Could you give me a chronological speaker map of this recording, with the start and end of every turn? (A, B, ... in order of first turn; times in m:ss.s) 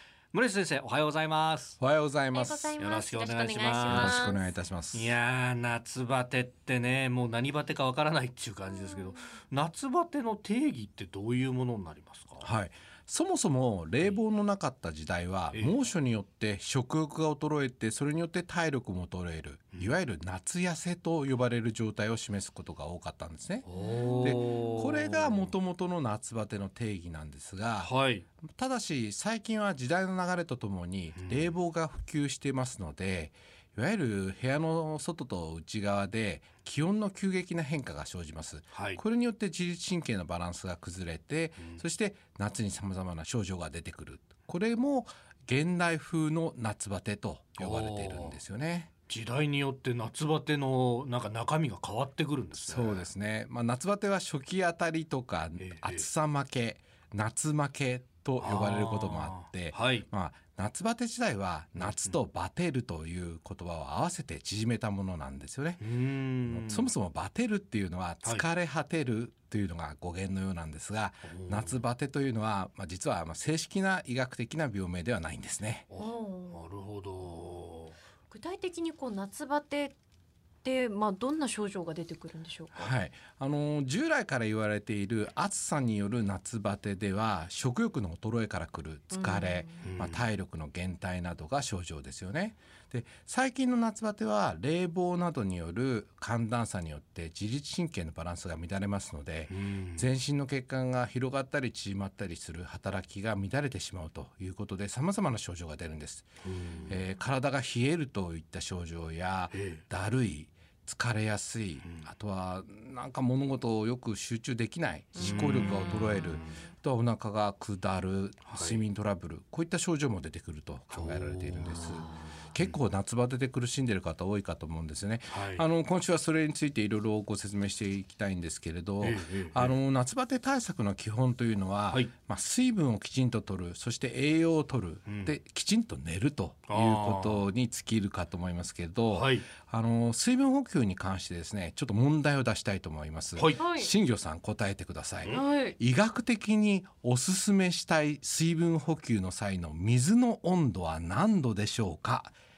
0:00.3-0:01.8 A
0:01.8-0:02.8 B
0:02.3-0:04.6 C
0:02.8-0:04.3 A
0:03.8-0:05.2 B
0:04.9-0:12.5 A
0:08.6-0:09.3 C
0:12.4-0:23.6 B
0:15.5-0:15.8 A
0:23.6-0:25.5 A
0:23.8-0:24.7 C
0:24.2-0:48.9 B
0:27.8-0:28.2 A
0:31.1-0:31.5 A
0:38.7-0:39.0 A
0:47.6-0:48.4 A
0:49.1-0:53.1 A
0:52.6-1:05.8 B
0:55.6-0:56.1 A
0:58.4-1:00.0 A
1:01.7-1:02.2 A
1:05.8-1:06.9 A
1:06.4-1:15.9 B
1:11.2-1:11.8 A
1:15.9-1:18.0 A
1:16.0-1:16.6 C
1:18.3-1:20.0 C
1:20.6-1:22.9 C
1:22.7-1:46.3 B
1:29.1-1:29.9 C
1:29.8-1:30.3 A
1:39.5-1:40.1 A
1:46.4-1:47.0 A
1:46.9-2:32.4 B
1:49.5-1:49.8 A
1:51.8-1:52.1 A
1:55.2-1:56.5 C
1:55.2-1:56.6 A
1:58.4-1:58.8 A
2:00.9-2:02.8 A
2:05.3-2:05.6 A
2:09.0-2:09.7 A
2:15.1-2:15.3 A
2:16.7-2:17.5 A
2:19.1-2:19.5 A
2:23.5-2:23.9 C
2:25.3-2:25.8 C